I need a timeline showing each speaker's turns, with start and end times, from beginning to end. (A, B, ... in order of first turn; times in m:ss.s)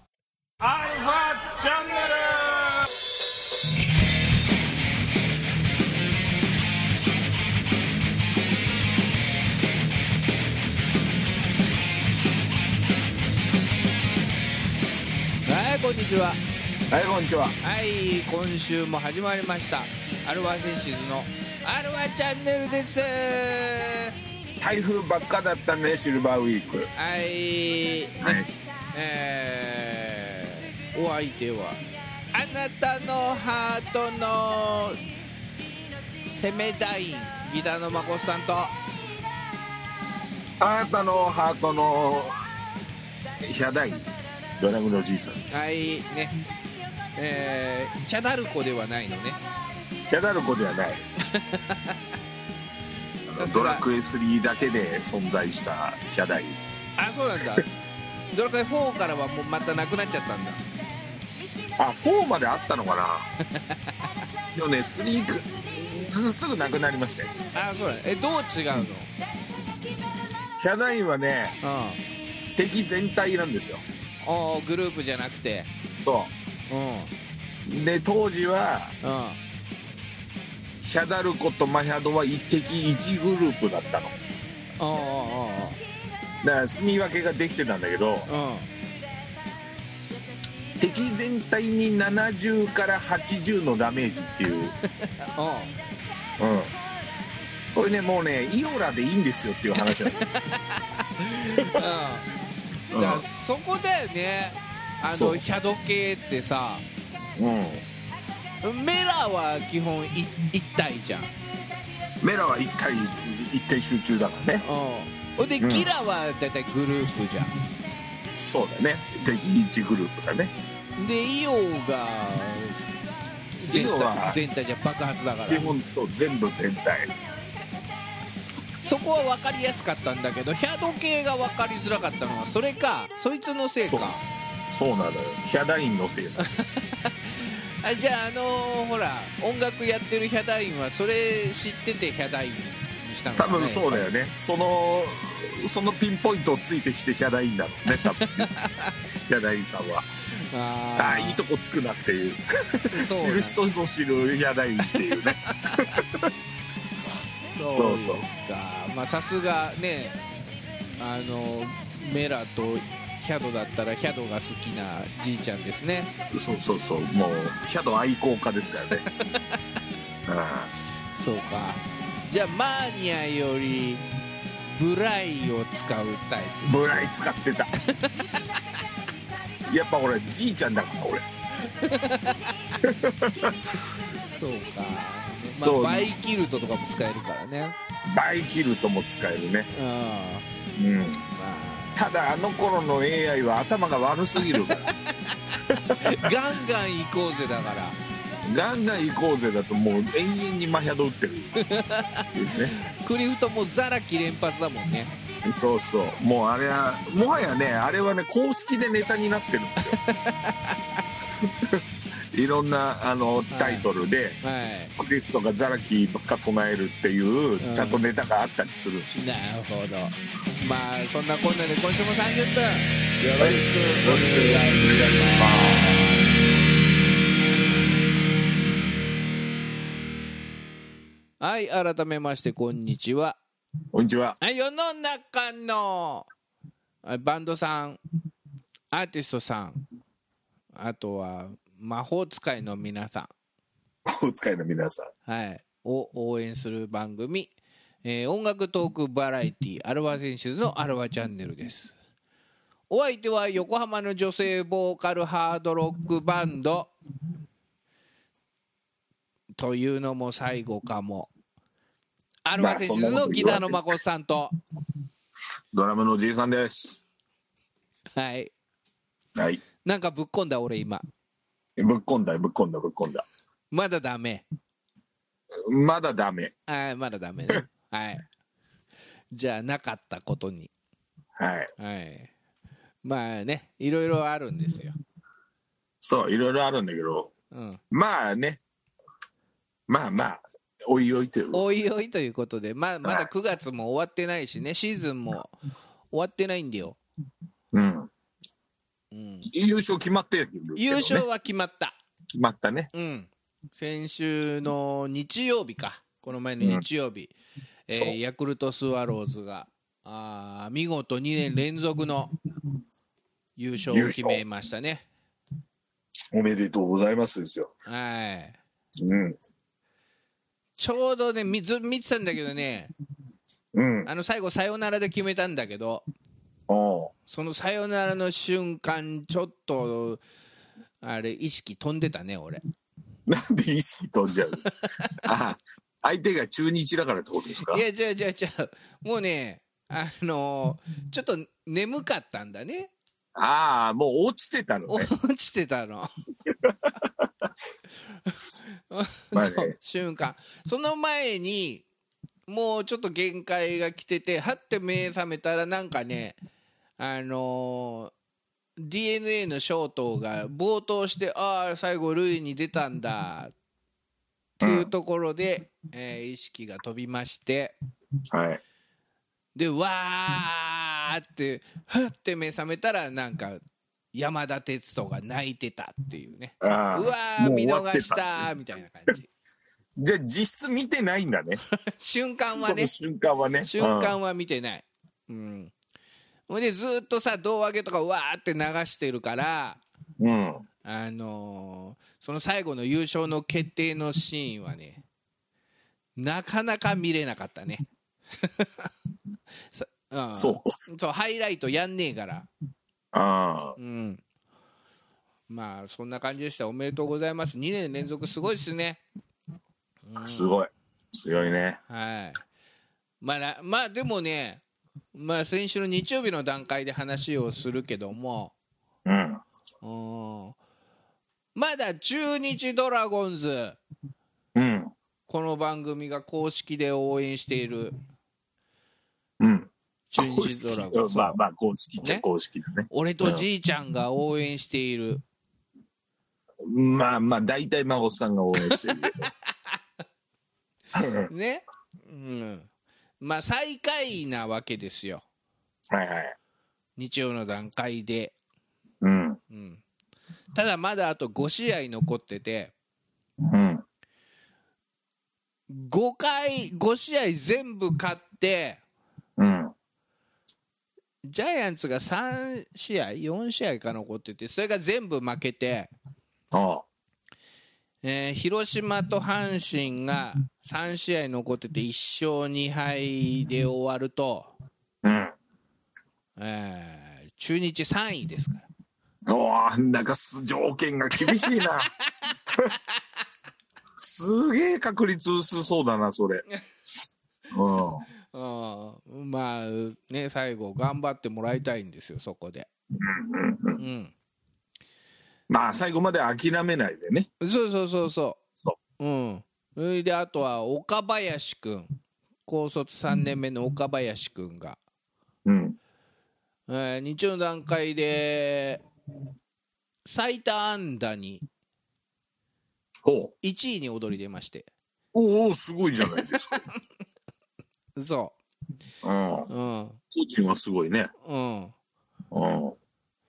0:00.6-0:02.9 A
0:15.5-0:16.4 B
0:16.9-0:17.6 A
0:17.6-0:24.2 B
0:24.6-0:26.9 A
0:27.0-0:28.4 B
0:28.2-0:28.5 A
0:28.9-0:31.8 B
0:32.3-0:35.0 B
0:36.2-0:38.8 B
0:40.6-0:42.3 A
0:43.4-0:45.6 A
0:45.5-0:46.4 B
0:47.2-0:49.4 B
0:50.1-0:51.0 A
0:51.2-0:52.0 B
0:53.3-0:56.6 A
0:53.3-0:53.8 B
0:57.0-0:57.7 B
0:58.3-1:00.6 B
1:01.8-1:03.3 A
1:03.6-1:03.9 B
1:04.5-1:07.4 A
1:07.6-1:09.1 B
1:10.6-1:11.6 A
1:11.6-1:12.0 B
1:12.6-1:13.8 A
1:14.2-1:15.7 B
1:16.0-1:16.3 A
1:16.7-1:17.1 B
1:17.6-1:18.9 A
1:19.0-1:19.4 B
1:20.8-1:24.2 A
1:24.8-1:25.8 B
1:26.4-1:28.3 A
1:28.3-1:28.7 B
1:30.8-1:34.7 A
1:35.3-1:35.7 B
1:36.4-1:36.7 A
1:37.7-1:40.2 A
1:39.8-1:42.3 B
1:42.9-1:43.2 A
1:42.9-1:46.8 B
1:45.1-1:45.4 A
1:47.4-1:47.8 A
1:48.6-1:51.3 B
1:52.2-1:54.6 A
1:54.6-1:57.5 B
1:55.6-1:55.9 A
1:58.4-2:00.5 A
2:01.0-2:02.8 B
2:03.6-2:05.7 B
2:03.7-2:04.4 A
2:05.5-2:07.1 A
2:08.8-2:14.2 B
2:13.8-2:14.1 A
2:14.7-2:16.4 A
2:16.4-2:24.1 B
2:23.4-2:28.5 A
2:28.0-2:28.9 B
2:29.3-2:30.1 A
2:30.4-2:31.4 B
2:31.0-2:36.3 A
2:32.9-2:33.6 B
2:34.9-2:36.0 B
2:37.6-2:40.2 B
2:37.7-2:38.2 A
2:41.0-2:46.1 B
2:46.3-2:49.0 A
2:48.9-2:49.6 B
2:50.3-2:50.7 A
2:51.1-2:54.0 B
2:54.8-2:57.1 B
2:56.6-2:57.7 A
2:57.9-2:58.4 B
2:59.7-3:01.3 A
3:01.7-3:02.8 B
3:02.8-3:03.8 A
3:04.2-3:07.8 B
3:05.6-3:06.1 A
3:08.1-3:09.7 A
3:09.7-3:10.5 B
3:10.8-3:11.2 A
3:11.4-3:12.0 B
3:12.0-3:14.9 A
3:14.4-3:14.7 B
3:15.3-3:18.0 B
3:15.6-3:16.0 A
3:18.4-3:21.5 A
3:21.6-3:25.1 B
3:22.4-3:22.8 A
3:25.4-3:30.0 A
3:29.9-3:31.0 B
3:31.3-3:31.8 A
3:32.3-3:34.4 A
3:33.5-3:33.9 B
3:34.4-3:34.9 B
3:35.0-3:39.1 A
3:37.6-3:38.0 B
3:39.1-3:46.2 B
3:43.4-3:46.3 A
3:51.4-3:53.4 B
3:53.9-3:54.4 A
3:54.4-3:56.3 B
3:57.0-3:58.0 B
3:58.9-3:59.8 B
4:00.7-4:03.3 B
4:04.1-4:05.1 A
4:05.3-4:07.5 B
4:08.0-4:11.9 B
4:12.9-4:16.9 B
4:19.6-4:21.3 B
4:22.4-4:24.6 B
4:22.6-4:24.0 A
4:25.7-4:27.0 A
4:28.2-4:28.5 B
4:29.4-4:29.6 A
4:29.8-4:31.0 B
4:31.8-4:33.3 A
4:33.7-4:34.5 B
4:35.7-4:36.5 A
4:36.7-4:38.2 B
4:39.3-4:40.7 B
4:41.4-4:41.7 A
4:41.8-4:42.3 B
4:43.0-4:45.0 B
4:46.0-4:47.3 A
4:47.5-4:47.8 B
4:47.9-4:48.6 A
4:49.9-4:51.6 A
4:51.5-4:55.5 B
4:56.1-4:57.0 B
4:57.7-4:58.1 A
4:59.1-4:59.5 B
4:59.5-5:01.2 A
5:00.8-5:02.0 B
5:02.3-5:02.9 A
5:02.9-5:07.3 B
5:07.9-5:12.3 B
5:07.9-5:08.2 A
5:13.6-5:15.1 B
5:13.9-5:14.4 A
5:16.3-5:17.7 A
5:17.9-5:18.6 B
5:19.0-5:19.4 A
5:20.8-5:22.9 B
5:23.7-5:24.1 A
5:24.1-5:26.1 B
5:26.7-5:27.1 A
5:27.3-5:30.2 B
5:31.0-5:32.6 B
5:33.3-5:34.6 A
5:34.7-5:35.2 B
5:35.2-5:37.8 A
5:37.6-5:42.9 B
5:43.4-5:45.1 A
5:44.9-5:46.1 B
5:46.5-5:47.5 A
5:48.3-5:51.8 B
5:49.3-5:49.7 A
5:52.5-5:56.4 B
5:57.0-5:58.1 B
5:58.8-6:03.5 B
6:04.6-6:04.9 A
6:04.6-6:07.8 B
6:08.3-6:08.6 A
6:09.6-6:13.6 B
6:14.1-6:19.3 B
6:16.6-6:18.5 A
6:20.0-6:21.6 A
6:21.7-6:22.9 B
6:22.6-6:24.2 A
6:23.6-6:25.7 B
6:26.5-6:29.8 B
6:30.2-6:30.6 A
6:30.8-6:35.0 B
6:36.2-6:37.8 B
6:38.4-6:38.9 B
6:39.7-6:42.5 B
6:40.4-6:40.7 A
6:43.1-6:43.8 A
6:43.8-6:44.2 B
6:45.5-6:49.0 B
6:50.1-6:50.6 B
6:50.2-6:51.8 A
6:51.4-6:52.4 B
6:53.2-6:54.6 B
6:55.2-6:58.6 B
6:59.1-6:59.4 A
6:59.8-7:00.6 B
7:01.6-7:03.8 B
7:04.6-7:04.9 A
7:05.3-7:08.0 B
7:09.4-7:13.5 A
7:10.1-7:11.4 B
7:12.9-7:15.2 B
7:16.6-7:19.2 A
7:18.6-7:19.7 B
7:20.9-7:21.3 A
7:21.3-7:22.7 B
7:23.2-7:25.2 B
7:25.9-7:26.4 A
7:27.0-7:28.4 B
7:29.0-7:29.4 A
7:29.5-7:29.8 B
7:30.6-7:32.7 B
7:33.4-7:33.8 A
7:35.7-7:38.8 B
7:39.4-7:39.7 A
7:41.2-7:45.9 B
7:46.5-7:46.8 A
7:48.0-7:54.5 B
7:55.0-7:55.4 A
7:56.4-7:58.6 B
7:59.3-8:01.9 A
8:01.2-8:02.3 B
8:04.0-8:06.4 A
8:07.5-8:08.0 A
8:08.3-8:12.7 B
8:13.0-8:13.8 A
8:13.8-8:14.1 B
8:15.5-8:17.3 A
8:17.4-8:18.4 B
8:19.0-8:21.9 B
8:22.5-8:24.8 B
8:25.4-8:25.8 A
8:26.7-8:28.8 B
8:30.0-8:31.4 B
8:33.0-8:33.3 A
8:33.4-8:34.7 B
8:35.1-8:36.6 A
8:36.3-8:36.6 B
8:38.0-8:38.4 B
8:39.0-8:39.5 A
8:39.5-8:40.0 B
8:40.1-8:41.1 A
8:41.2-8:41.7 B
8:42.3-8:42.8 A